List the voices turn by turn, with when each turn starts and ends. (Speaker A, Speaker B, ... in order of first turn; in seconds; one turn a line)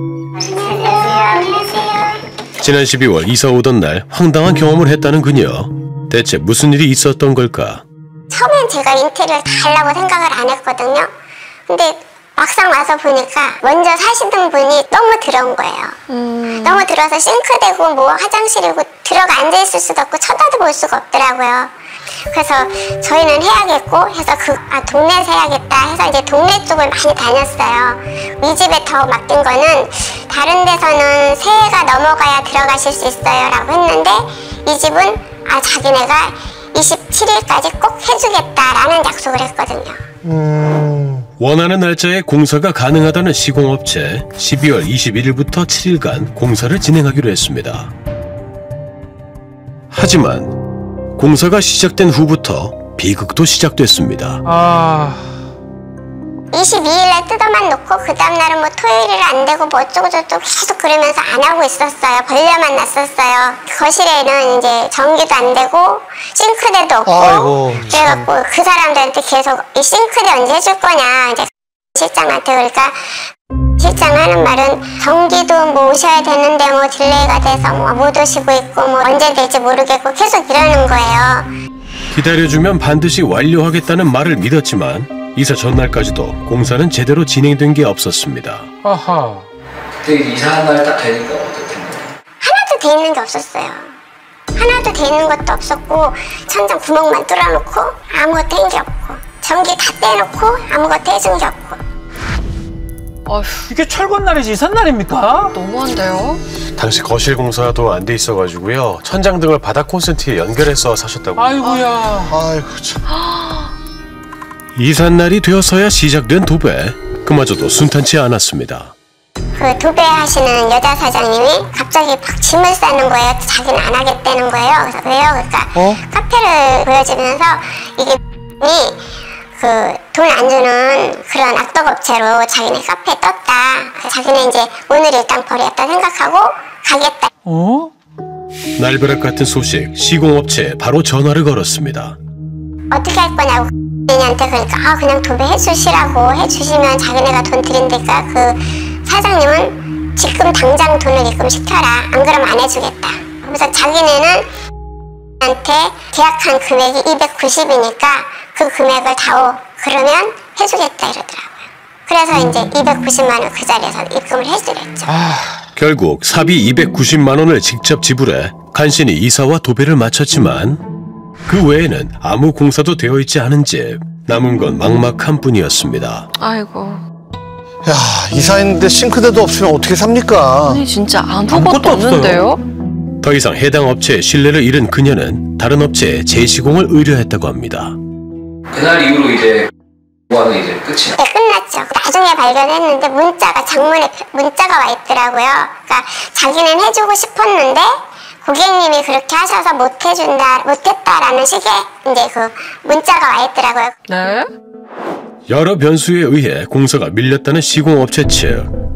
Speaker A: 0.4-2.2
Speaker B: 2.6-7.8
Speaker A: 8.3-11.1
Speaker A: 11.7-16.0
Speaker C: 16.1-16.9
Speaker A: 16.6-21.7
Speaker A: 22.3-40.0
Speaker D: 40.2-41.2
Speaker B: 41.4-47.9
Speaker B: 49.9-50.5
Speaker B: 51.1-54.4
Speaker E: 54.5-55.3
Speaker A: 56.5-73.2
Speaker D: 67.1-68.2
Speaker A: 73.8-81.5
Speaker B: 82.1-88.7
Speaker E: 88.8-89.5
Speaker F: 90.0-92.1
Speaker A: 92.4-93.9
Speaker A: 94.5-101.8
Speaker C: 103.2-103.7
Speaker E: 103.7-105.5
Speaker C: 105.5-106.4
Speaker B: 106.8-111.7
Speaker E: 111.3-112.5
Speaker D: 112.5-113.0
Speaker C: 113.1-113.7
Speaker B: 114.8-118.9
Speaker A: 119.6-129.0
Speaker A: 129.6-137.3
Speaker E: 137.4-137.9
Speaker B: 138.8-142.2
Speaker A: 142.9-154.4
Speaker A: 155.4-165.1
Speaker E: 165.1-165.6
Speaker B: 165.8-170.8
Speaker B: 171.5-176.3
Speaker C: 176.4-177.0
Speaker D: 177.8-180.8
Speaker C: 180.6-182.6
Speaker E: 181.5-182.4
Speaker B: 183.2-187.9
Speaker F: 188.7-189.7
Speaker F: 190.3-191.2
Speaker A: 191.2-197.9
Speaker A: 198.4-203.9
Speaker C: 204.1-204.5
Speaker B: 205.5-208.7